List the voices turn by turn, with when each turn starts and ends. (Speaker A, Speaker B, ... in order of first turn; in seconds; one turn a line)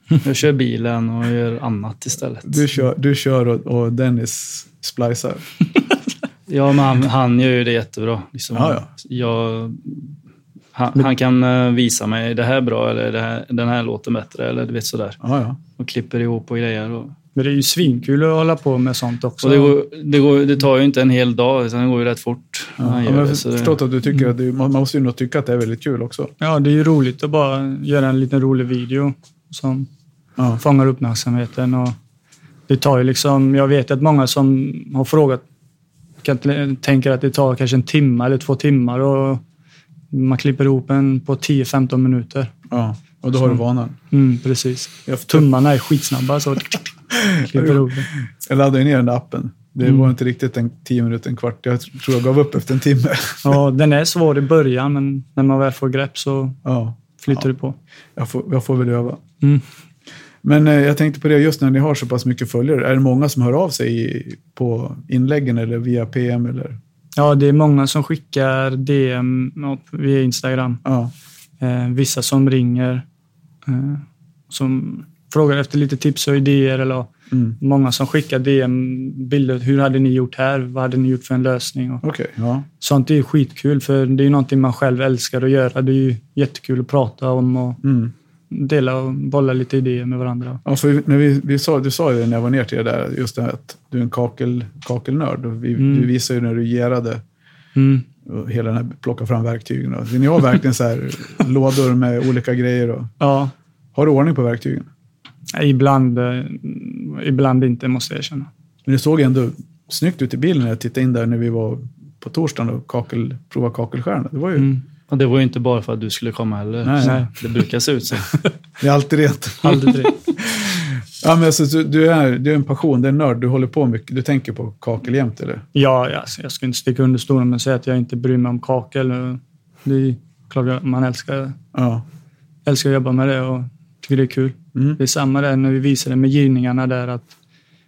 Speaker A: 0.2-2.6
Speaker B: 2.5-5.4
Speaker A: 6.5-10.1
Speaker B: 8.5-8.9
Speaker A: 10.7-15.2
Speaker B: 15.2-15.6
Speaker A: 15.8-17.1
Speaker C: 17.4-19.8
Speaker A: 19.4-23.8
Speaker B: 22.8-26.3
Speaker C: 26.4-29.9
Speaker C: 30.6-31.9
Speaker C: 32.7-35.4
Speaker C: 36.2-39.4
Speaker C: 40.1-42.5
Speaker B: 42.7-44.0
Speaker C: 44.1-48.1
Speaker B: 45.1-45.5
Speaker B: 47.1-53.6
Speaker C: 49.8-50.1
Speaker C: 53.4-56.6
Speaker B: 56.6-57.5
Speaker C: 57.2-57.8
Speaker B: 58.1-59.2
Speaker B: 60.4-66.8
Speaker C: 67.2-70.8
Speaker B: 70.8-71.1
Speaker C: 71.6-73.0
Speaker C: 73.7-82.0
Speaker B: 77.3-77.5
Speaker B: 82.0-82.7
Speaker C: 82.8-87.8
Speaker B: 87.8-88.1
Speaker C: 88.5-90.6
Speaker B: 90.6-97.2
Speaker C: 95.8-96.1
Speaker C: 97.8-98.0
Speaker B: 98.2-103.1
Speaker C: 103.2-103.5
Speaker B: 103.9-104.9
Speaker C: 105.5-108.5
Speaker B: 108.8-114.7
Speaker C: 114.6-114.8
Speaker A: 115.1-118.4
Speaker B: 116.8-117.2
Speaker C: 117.0-117.3
Speaker B: 118.8-125.6
Speaker C: 119.6-120.1
Speaker C: 125.7-131.6
Speaker B: 131.7-132.0
Speaker C: 132.7-137.3